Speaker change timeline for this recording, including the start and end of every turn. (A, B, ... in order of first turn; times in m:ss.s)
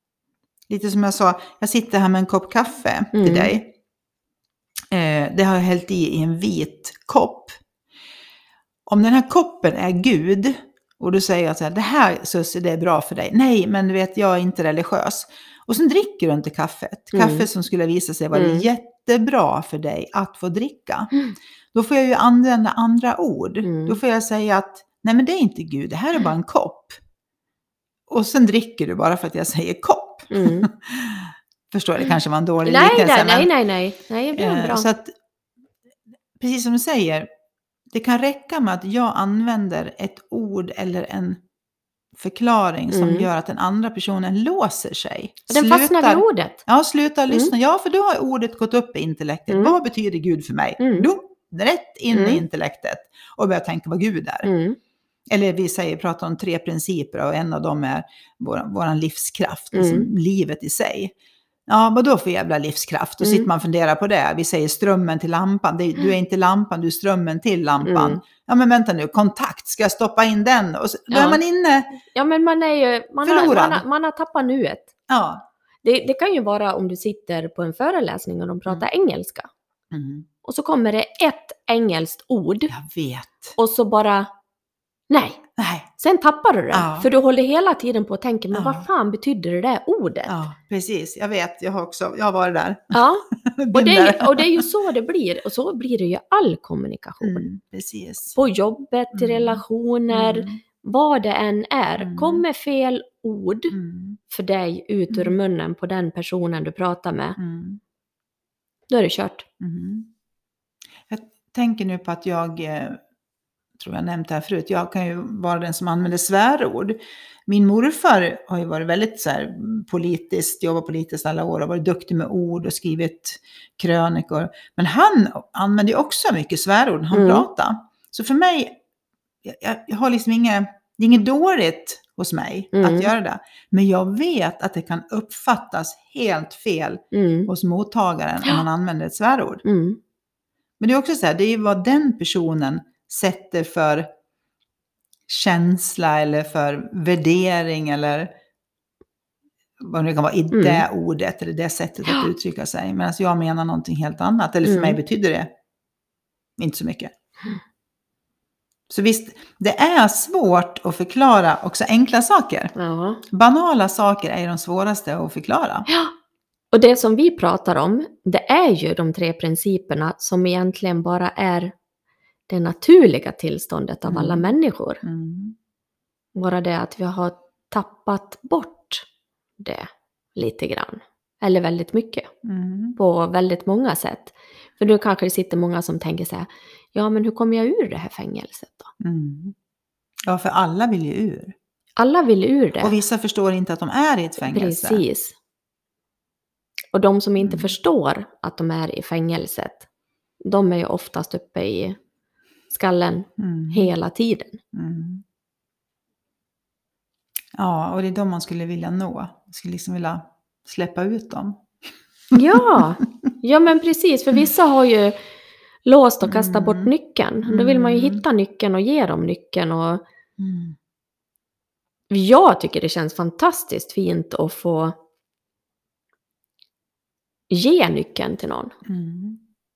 0:00.7-0:03.7 A
0:03.1-0:03.5 B
0:04.9-0:07.6 A
0:08.9-0:21.2 A
0:17.1-0:17.5 B
0:18.3-0:18.7 B
0:21.7-0:27.0 A
0:23.6-0:24.0 B
0:28.1-0:33.5 A
0:30.3-0:30.7 B
0:32.6-0:34.9 B
0:34.3-0:35.1 A
0:36.4-0:37.3 A
0:37.9-0:41.4 A
0:42.1-0:54.5 A
0:42.9-0:43.3 B
0:45.5-0:46.6 B
0:49.5-0:49.8 B
0:50.8-0:51.1 B
0:52.1-0:52.4 B
0:54.4-0:54.8 B
0:55.3-1:01.1 A
0:59.7-1:00.1 B
1:01.7-1:11.9 A
1:03.2-1:03.5 B
1:07.8-1:08.2 B
1:11.1-1:11.4 B
1:12.1-1:14.9 B
1:13.2-1:13.8 A
1:15.1-1:15.4 A
1:15.8-1:19.5 B
1:19.9-1:20.3 A
1:20.4-1:22.7 B
1:22.7-1:23.6 A
1:23.6-1:24.3 B
1:25.1-1:25.4 B
1:25.6-1:25.9 A
1:26.0-1:30.3 B
1:26.7-1:27.1 A
1:28.5-1:28.9 A
1:30.2-1:34.7 A
1:32.9-1:37.5 B
1:37.2-1:38.4 A
1:38.4-1:43.8 B
1:39.1-1:40.6 A
1:42.0-1:42.4 A
1:43.7-1:44.2 A
1:44.3-1:47.4 B
1:47.4-1:47.8 A
1:48.9-1:49.4 B
1:49.6-1:50.1 A
1:51.1-1:53.0 A
1:53.8-2:08.8 A
2:07.1-2:07.5 B
2:09.4-2:19.6 A
2:12.7-2:13.1 B
2:17.1-2:17.5 B
2:19.6-2:20.0 B
2:20.8-2:24.1 A
2:25.3-2:28.3 A
2:29.8-2:35.5 A
2:30.5-2:30.8 B
2:34.6-2:35.0 B
2:36.6-2:37.1 A
2:38.9-2:42.7 A
2:42.8-2:43.2 B
2:43.3-2:45.9 A
2:46.7-2:51.7 B
2:52.5-2:55.0 B
2:54.1-2:54.5 A
2:55.0-2:55.6 A
2:56.3-2:59.0 B
2:59.6-3:02.3 B
3:02.4-3:03.0 A
3:03.0-3:08.9 B
3:09.0-3:09.5 A
3:10.3-3:11.5 A
3:12.0-3:13.0 B
3:12.8-3:15.0 A
3:14.4-3:15.3 B
3:16.9-3:19.8 B
3:17.4-3:17.7 A
3:20.4-3:22.0 B
3:22.7-3:24.6 B
3:23.4-3:23.9 A
3:24.7-3:25.2 A
3:27.6-3:31.6 A
3:32.3-3:35.2 B
3:32.4-3:32.8 A
3:35.8-3:40.0 B
3:36.2-3:36.9 A
3:37.5-3:38.2 A
3:40.4-3:40.8 A
3:42.1-3:45.0 B
3:47.5-3:48.7 B
3:48.8-3:49.4 A